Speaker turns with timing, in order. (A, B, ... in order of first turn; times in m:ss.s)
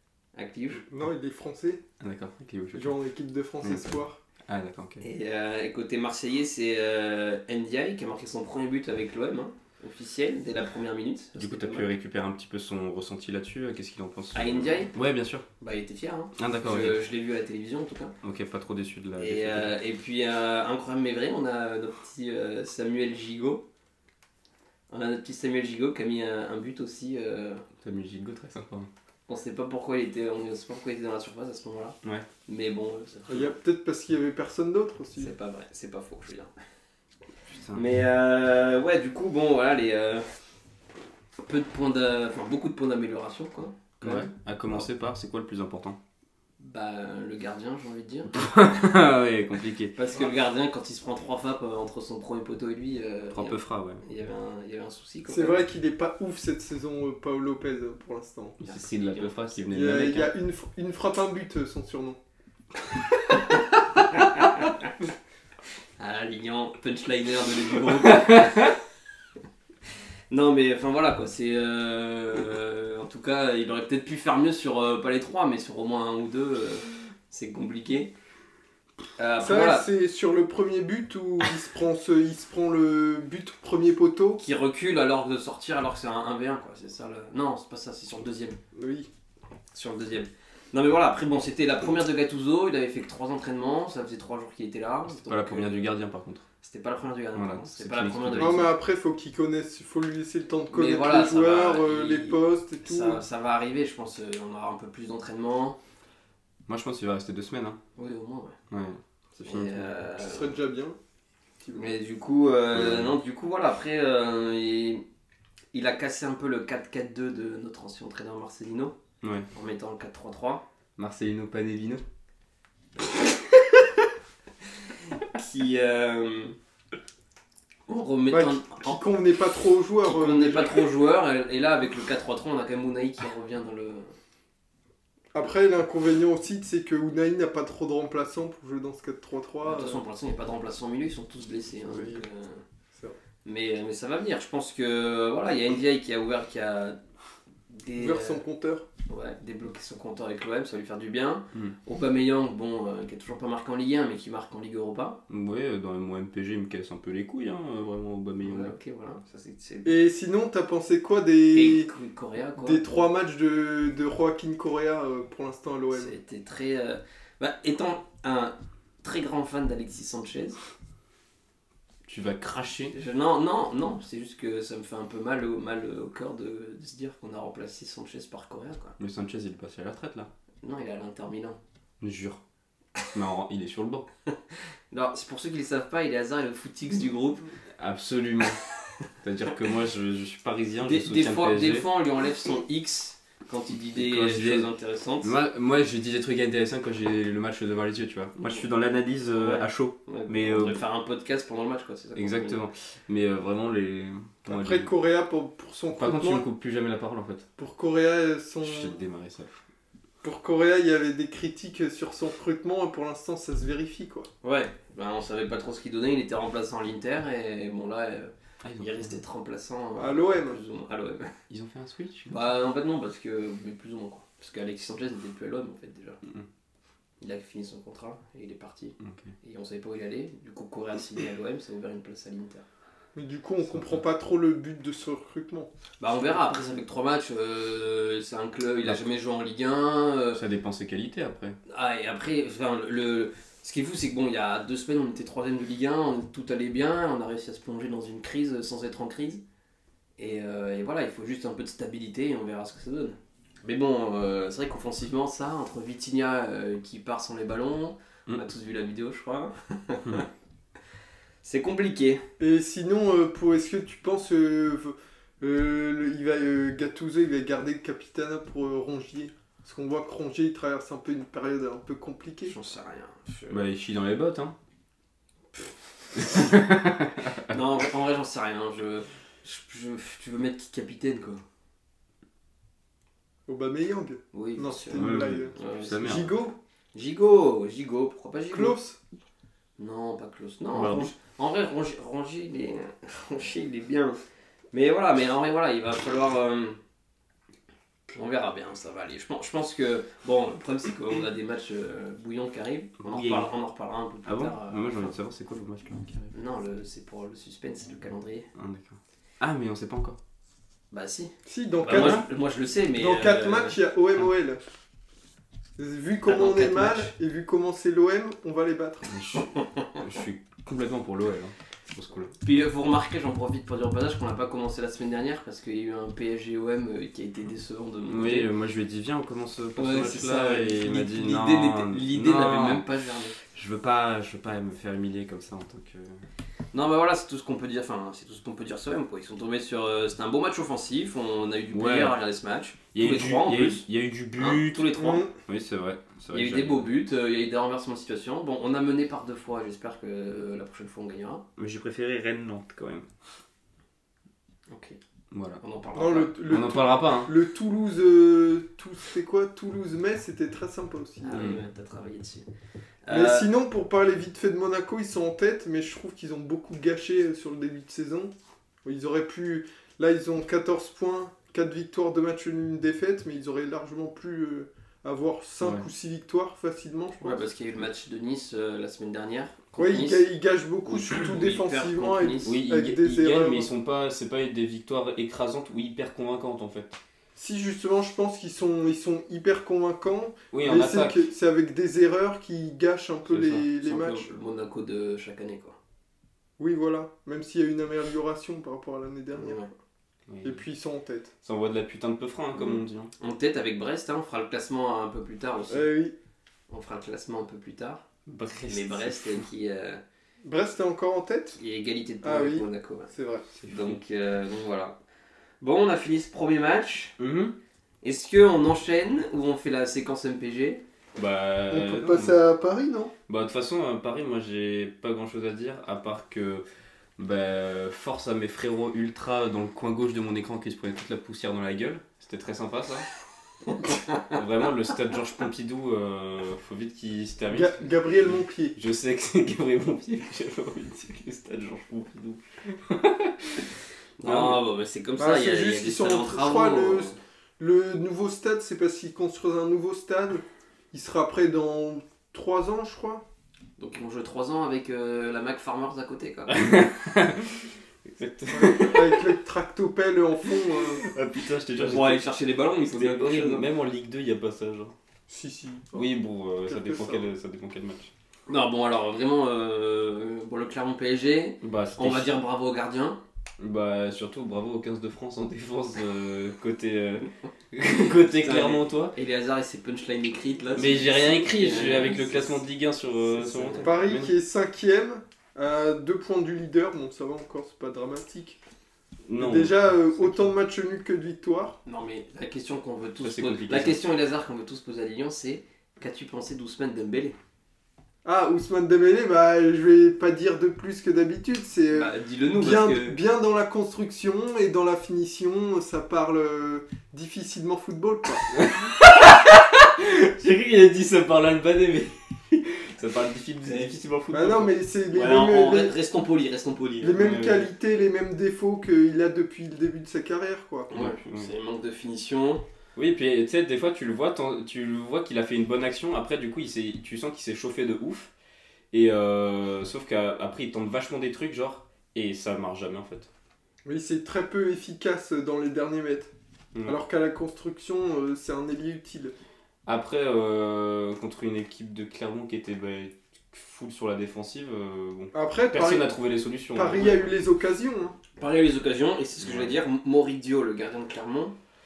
0:00.4-0:00.8 A
0:00.8-0:01.8 B
0:02.0-0:03.0 C
0:02.7-0:04.2 B
0:03.6-0:03.9 C
0:04.5-0:05.0 C
0:05.0-0:11.9 A
0:11.4-0:15.5 C
0:14.3-0:14.9 A
0:15.6-0:18.1 A
0:16.4-0:17.0 C
0:18.2-0:19.7 C
0:19.2-0:23.7 A
0:24.9-0:27.7 A
0:27.8-0:28.9 C
0:29.3-0:33.6 A
0:33.3-0:35.4 B
0:35.2-0:36.5 A
0:37.5-0:37.8 C
0:37.7-0:40.3 A
0:41.4-0:44.3 A
0:44.0-0:46.0 C
0:46.6-0:48.4 A
0:48.4-0:50.0 C
0:49.9-0:55.6 A
0:53.3-0:54.0 C
0:55.3-0:58.6 B
0:58.6-1:00.3 C
0:58.6-0:59.7 A
0:59.7-1:02.2 B
1:03.3-1:04.9 A
1:06.0-1:08.8 A
1:08.1-1:08.7 C
1:10.3-1:18.1 A
1:19.2-1:19.9 A
1:19.4-1:24.4 B
1:24.4-1:28.6 A
1:28.8-1:29.1 B
1:29.7-1:35.9 A
1:35.1-1:36.4 C
1:36.6-1:38.7 A
1:37.4-1:38.6 C
1:38.4-1:43.2 B
1:40.7-1:45.8 A
1:46.7-1:47.8 C
1:48.0-1:48.6 A
1:48.7-1:50.0 C
1:49.4-1:50.5 A
1:50.2-1:51.0 B
1:51.6-1:51.9 B
1:51.8-1:55.0 A
1:52.7-1:53.1 C
1:55.7-1:59.0 A
1:59.2-1:59.5 C
1:59.5-2:00.6 A
2:01.0-2:02.0 C
2:05.3-2:06.6 A
2:07.9-2:09.0 A
2:08.3-2:10.9 B
2:10.0-2:14.2 A
2:15.3-2:20.0 B
2:19.6-2:22.6 A
2:21.9-2:22.2 B
2:23.4-2:27.0 A
2:27.7-2:28.4 A
2:28.0-2:28.9 B
2:29.1-2:35.2 A
2:35.3-2:38.7 C
2:38.4-2:39.9 A
2:39.8-2:41.9 B
2:41.5-2:43.0 A
2:42.6-2:46.1 B
2:45.9-2:50.6 A
2:52.1-2:53.0 C
2:52.9-2:59.0 A
2:59.0-3:00.3 C
3:00.6-3:01.6 A
3:02.0-3:02.4 C
3:03.1-3:04.1 C
3:04.3-3:07.5 A
3:07.8-3:08.6 C
3:09.2-3:11.9 C
3:10.8-3:15.3 A
3:14.0-3:14.7 C
3:15.2-3:20.8 C
3:19.3-3:22.6 A
3:22.2-3:24.9 C
3:24.5-3:26.4 B
3:26.0-3:27.4 C
3:27.6-3:29.0 B
3:28.6-3:29.6 C
3:30.2-3:34.3 B
3:34.4-3:41.3 A
3:38.6-3:39.2 C
3:40.0-3:40.6 B
3:41.5-3:42.4 C
3:42.3-3:46.2 A
3:47.2-3:52.6 A
3:49.0-3:49.3 C
3:53.2-3:55.7 B
3:56.0-4:00.4 A
4:00.4-4:01.6 C
4:01.7-4:09.4 A
4:10.2-4:20.3 A
4:21.4-4:22.2 A
4:22.4-4:32.6 B
4:32.5-4:33.6 A
4:33.5-4:34.6 C
4:36.2-4:37.6 C
4:37.5-4:41.4 A
4:43.5-4:46.6 B
4:44.3-4:46.2 A
4:44.9-4:46.3 C
4:46.9-4:48.8 A
4:48.5-4:49.0 B
4:49.8-4:54.2 A
4:50.7-4:51.1 C
4:54.7-4:56.8 A
4:58.1-5:05.2 A
5:03.0-5:03.5 C
5:04.3-5:06.3 C
5:06.3-5:08.5 A
5:08.6-5:10.2 C
5:10.9-5:13.8 A
5:11.5-5:12.3 B
5:11.9-5:12.2 C
5:13.0-5:14.6 B
5:15.8-5:19.1 B
5:16.2-5:17.1 A
5:19.1-5:22.3 C
5:19.5-5:20.0 A
5:22.4-5:28.5 A
5:28.0-5:32.9 C
5:29.8-5:33.4 A
5:33.5-5:36.2 C
5:36.7-5:43.9 A
5:41.7-5:42.2 C
5:42.9-5:46.9 C
5:44.4-5:45.3 A
5:45.0-5:45.3 B
5:46.3-5:51.4 A
5:51.6-5:53.1 C
5:54.7-5:55.0 A
5:55.3-5:55.6 C
5:55.6-5:56.5 A
5:56.0-6:01.4 B
5:56.5-5:57.3 C
6:01.2-6:02.5 A
6:01.3-6:01.6 C
6:03.0-6:03.5 A
6:03.1-6:08.3 B
6:08.8-6:17.4 B
6:17.2-6:20.3 A
6:19.8-6:23.7 B
6:20.8-6:22.5 A
6:22.4-6:27.0 C
6:27.4-6:34.3 B
6:30.5-6:31.3 C
6:33.3-6:33.7 C
6:33.8-6:35.8 A
6:36.6-6:39.6 B
6:39.4-6:39.7 A
6:40.3-6:40.6 C
6:40.4-6:41.3 B
6:41.4-6:43.1 C
6:43.2-6:45.9 A
6:45.7-6:46.2 B
6:46.7-6:48.0 A
6:48.3-6:49.4 C
6:48.7-6:50.0 A
6:50.4-6:51.6 B
6:51.6-6:53.1 A
6:52.2-6:53.4 B
6:53.5-6:54.0 C
6:53.7-6:55.0 A
6:55.6-6:57.2 A
6:57.2-6:57.6 C
6:58.0-7:00.8 A
7:01.2-7:02.4 C
7:01.7-7:03.1 B
7:03.3-7:06.6 C
7:07.2-7:13.1 C
7:13.7-7:14.4 A
7:14.2-7:23.7 C
7:17.5-7:18.8 B
7:24.2-7:27.2 A
7:24.2-7:24.6 C
7:25.2-7:33.2 B
7:33.8-7:36.6 A
7:36.5-7:39.3 C
7:38.5-7:41.0 B
7:40.9-7:44.9 C
7:41.8-7:43.7 A
7:45.3-7:46.1 B
7:45.9-7:48.1 C
7:46.7-7:47.3 B
7:48.5-7:53.2 A
7:51.6-7:52.4 C
7:53.6-7:59.2 C
7:58.4-8:02.6 A
8:00.8-8:04.3 C
8:03.3-8:03.9 A
8:03.8-8:08.6 B
8:09.3-8:10.5 C
8:09.4-8:11.8 B
8:11.9-8:17.4 A
8:13.2-8:14.0 C
8:18.2-8:28.5 B
8:21.9-8:23.2 A
8:28.5-8:34.7 C
8:33.6-8:34.0 A
8:34.3-8:36.0 B
8:35.1-8:37.2 A
8:37.0-8:40.9 B
8:37.2-8:37.7 C
8:40.9-8:42.6 A
8:40.9-8:41.5 C
8:43.0-8:48.3 C
8:48.9-8:53.3 C
8:53.8-8:56.3 B
8:56.9-8:59.4 B
8:59.9-9:07.3 C
9:05.3-9:06.1 B
9:06.7-9:08.2 B
9:08.4-9:11.6 A
9:09.4-9:09.8 C